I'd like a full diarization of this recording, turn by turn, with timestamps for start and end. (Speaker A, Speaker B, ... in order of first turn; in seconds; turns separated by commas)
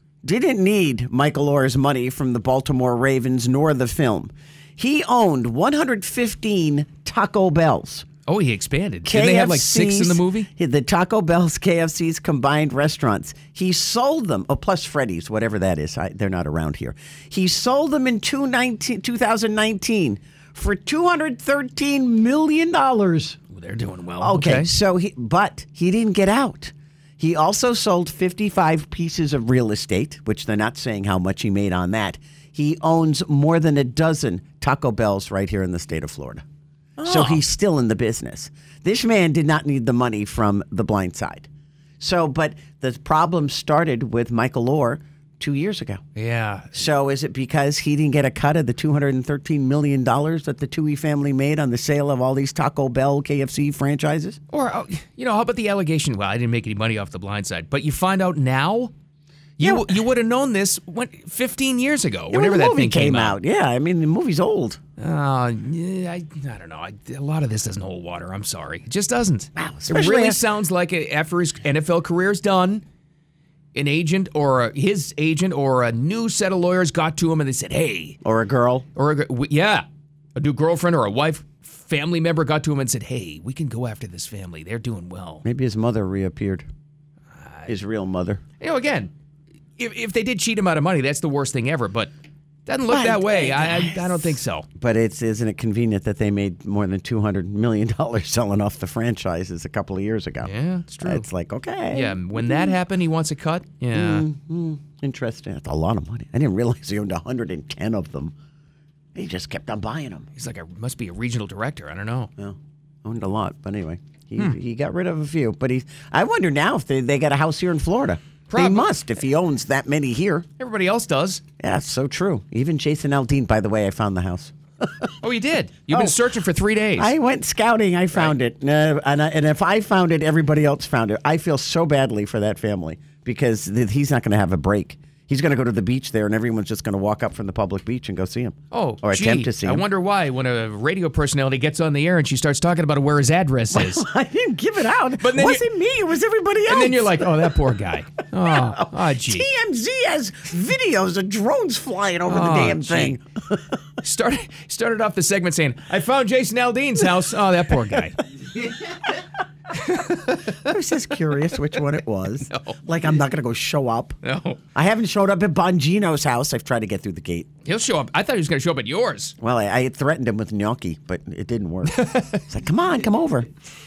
Speaker A: 0.2-8.1, Speaker B: 8.3-10.5, Speaker A: 9.1-23.4, Speaker B: 23.5-24.7, Speaker A: 24.2-36.4, Speaker A: 37.0-41.5, Speaker B: 37.0-37.4, Speaker A: 42.0-46.0, Speaker B: 46.2-46.8, Speaker A: 46.7-54.4, Speaker B: 54.5-58.9, Speaker B: 59.6-63.4, Speaker A: 59.6-60.0, Speaker A: 62.3-64.8, Speaker B: 65.0-72.8, Speaker A: 69.6-70.4, Speaker B: 73.8-78.2, Speaker A: 78.2-78.8, Speaker B: 79.0-79.8, Speaker B: 80.4-85.4, Speaker A: 85.4-86.7, Speaker A: 87.7-88.4, Speaker B: 88.6-89.1, Speaker B: 89.8-92.1, Speaker B: 92.7-94.7, Speaker A: 92.9-102.8, Speaker B: 100.4-101.3, Speaker B: 101.9-104.3, Speaker A: 103.9-108.3, Speaker A: 109.2-110.3, Speaker B: 110.4-112.3, Speaker A: 112.4-120.5, Speaker B: 118.5-118.9, Speaker B: 120.6-121.4, Speaker A: 121.6-125.1, Speaker B: 125.2-127.1, Speaker A: 125.9-126.2, Speaker A: 127.0-139.8, Speaker B: 138.7-144.1, Speaker A: 143.7-147.5, Speaker B: 145.2-145.7, Speaker B: 146.7-149.5, Speaker A: 148.4-153.6, Speaker B: 152.3-153.2, Speaker B: 154.0-158.2, Speaker B: 159.8-160.5, Speaker A: 160.5-164.2, Speaker B: 162.5-162.8, Speaker B: 164.2-164.6, Speaker A: 164.8-167.5, Speaker B: 167.7-169.4, Speaker A: 169.4-173.5, Speaker B: 171.9-172.4